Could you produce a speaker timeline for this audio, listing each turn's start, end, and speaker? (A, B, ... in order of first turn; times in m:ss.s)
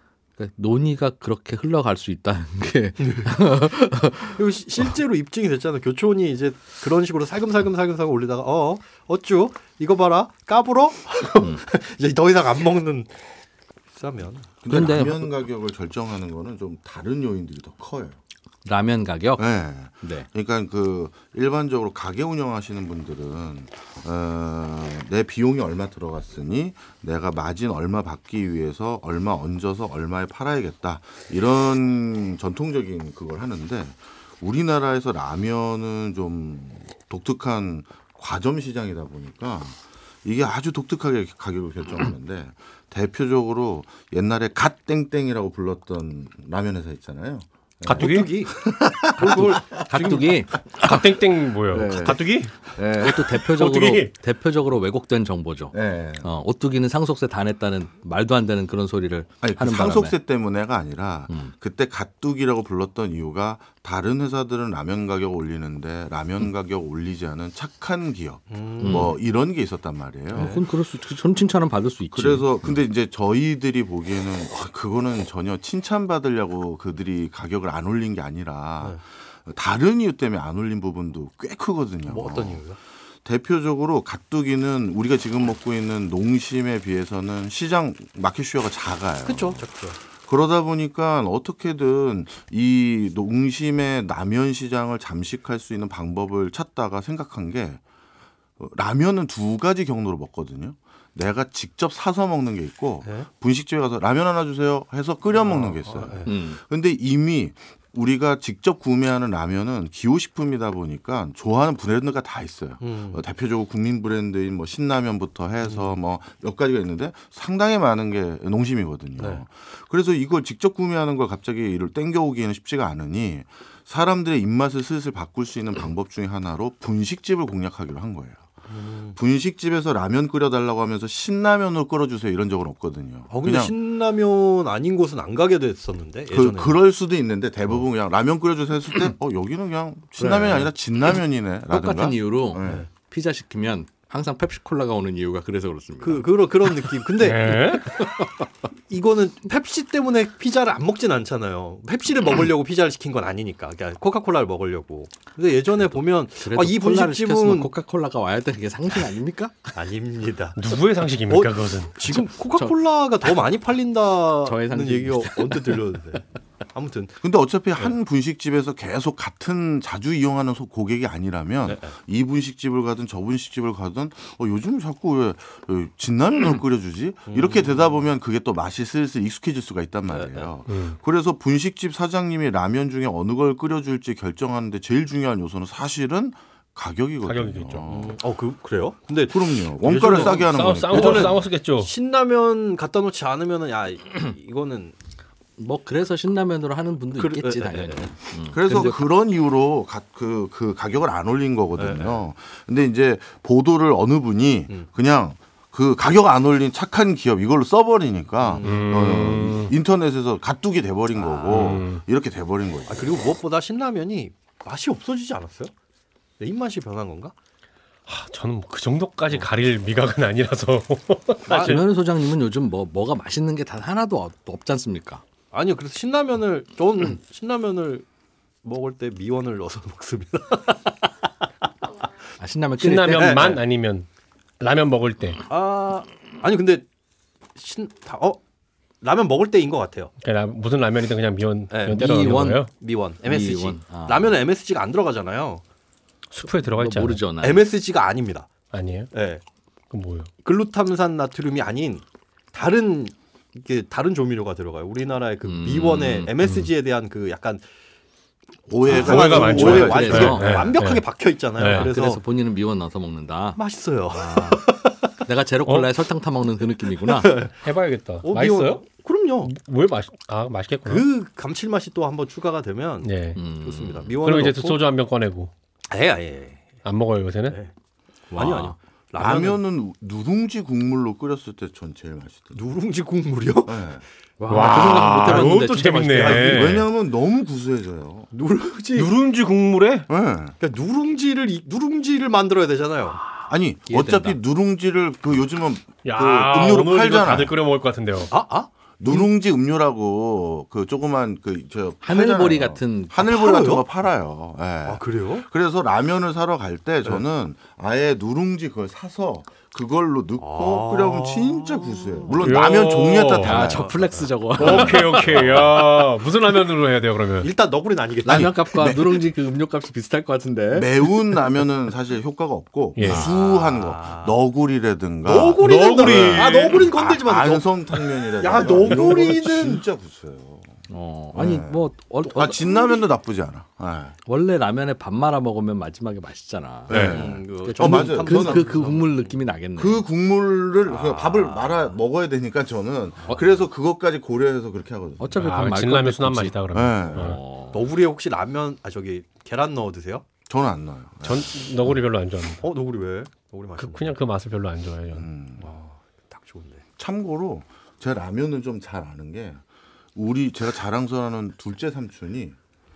0:00.4-0:04.4 A
0:03.0-0:03.4 B
0:04.3-0:13.4 B
0:13.9-0:14.5 B
0:14.6-0:18.2 C
0:14.7-0:15.3 A
0:18.6-0:19.4 A
0:19.4-0:50.3 C
0:20.0-0:20.3 A
0:47.8-0:48.5 D
0:47.9-0:48.5 B
0:49.2-0:49.6 B
0:49.2-0:51.1 A
0:50.7-0:54.1 D
0:51.7-0:53.4 C
0:53.0-1:00.2 A
0:55.7-0:56.3 C
0:59.4-1:10.6 C
1:08.5-1:09.1 B
1:08.8-1:09.2 A
1:10.3-1:12.7 A
1:10.3-1:10.6 B
1:12.1-1:22.7 C
1:22.0-1:22.8 B
1:23.2-1:37.8 C
1:29.2-1:30.0 B
1:38.6-2:08.4 C
1:45.4-1:46.3 B
1:46.2-1:46.6 A
1:52.8-1:53.2 B
1:55.6-1:55.9 B
1:59.2-1:59.4 B
2:08.7-2:09.2 B
2:09.2-2:13.8 C
2:13.3-2:16.8 B
2:16.3-2:22.8 C
2:20.2-2:20.7 B
2:21.7-2:27.0 A
2:26.0-2:28.0 B
2:27.2-2:27.9 D
2:28.9-2:37.7 B
2:36.4-2:39.7 A
2:39.7-2:40.6 B
2:40.5-2:42.0 D
2:41.3-2:47.2 B
2:42.0-2:42.8 A
2:44.4-2:45.9 A
2:47.2-3:08.2 C
2:51.6-2:51.9 B
2:57.3-2:57.9 B
3:00.1-3:00.5 B
3:00.7-3:01.0 D
3:07.2-3:07.9 D
3:07.9-3:15.0 B
3:09.3-3:11.4 C
3:10.0-3:11.9 D
3:15.6-3:19.0 A
3:17.2-3:18.1 B
3:18.5-3:33.2 C
3:21.8-3:22.3 B
3:28.4-3:29.4 B
3:28.6-3:29.7 D
3:31.1-3:31.8 B
3:31.5-3:32.0 D
3:32.9-3:35.7 B
3:36.4-3:37.3 B
3:38.1-3:41.8 D
3:41.5-3:41.8 B
3:41.5-3:45.2 A
3:45.5-3:48.0 B
3:48.6-3:51.0 B
3:52.4-3:53.4 A
3:52.8-3:54.1 D
3:53.1-3:53.6 B
3:54.6-3:55.4 D
3:55.5-3:56.9 B
3:57.6-3:58.4 B
3:59.0-4:00.1 B
4:00.2-4:02.7 D
4:01.7-4:05.6 B
4:01.9-4:02.6 A
4:03.2-4:04.4 A
4:06.3-4:07.2 D
4:06.4-4:07.7 A
4:07.4-4:08.5 B
4:08.7-4:09.1 D
4:09.1-4:09.4 B
4:09.9-4:10.3 D
4:10.4-4:17.6 B
4:15.4-4:16.3 A
4:16.4-4:16.7 D
4:18.7-4:20.4 C
4:18.8-4:22.2 B
4:18.9-4:21.0 D
4:19.4-4:20.7 A
4:21.6-4:21.9 D
4:21.6-4:27.4 A
4:23.6-4:25.0 B
4:25.6-4:25.9 D
4:27.0-4:27.6 B
4:27.6-4:28.8 D
4:28.2-4:29.5 B
4:29.4-4:31.1 D
4:30.8-4:34.8 B
4:33.0-4:33.4 D
4:33.4-4:34.2 A
4:34.2-4:35.5 D
4:35.9-4:36.7 B
4:36.8-4:37.6 D
4:38.3-4:39.6 B
4:38.3-4:38.7 A
4:39.2-4:42.6 C
4:42.5-4:43.9 B
4:43.7-4:44.0 C
4:44.4-4:46.4 A
4:44.5-4:46.8 B
4:44.5-4:46.9 D
4:46.3-4:48.3 C
4:48.3-4:49.1 B
4:48.9-4:50.1 D
4:50.1-4:50.6 C
4:50.6-4:53.2 B
4:53.2-4:54.4 A
4:53.5-4:57.6 C
4:56.0-4:58.3 D
4:58.3-4:59.3 B
4:59.0-5:13.9 C
5:02.0-5:03.2 A
5:03.2-5:03.8 B
5:04.8-5:05.5 B
5:10.4-5:12.4 B
5:12.4-5:13.7 D
5:13.4-5:15.8 A
5:13.6-5:15.7 B
5:14.6-5:17.5 D
5:17.4-5:18.6 B
5:18.2-5:21.4 A
5:18.3-5:19.2 C
5:20.7-5:34.1 C
5:22.9-5:23.3 D
5:23.0-5:24.4 B
5:25.2-5:29.8 B
5:25.3-5:26.8 D
5:30.9-5:33.0 A
5:34.2-5:40.0 A
5:36.9-5:39.0 C
5:36.9-5:37.3 D
5:36.9-5:39.3 B
5:39.8-5:45.4 C
5:40.8-5:42.0 B
5:45.2-5:46.6 A
5:45.4-5:47.4 D
5:46.7-5:47.4 C
5:47.1-5:47.8 A
5:47.7-5:50.2 B
5:50.5-5:52.0 C
5:51.2-5:52.6 D
5:52.6-5:54.2 B
5:53.8-5:55.3 D
5:55.1-5:55.7 C
5:55.6-5:56.8 B
5:57.0-5:59.6 C
6:00.1-6:02.6 C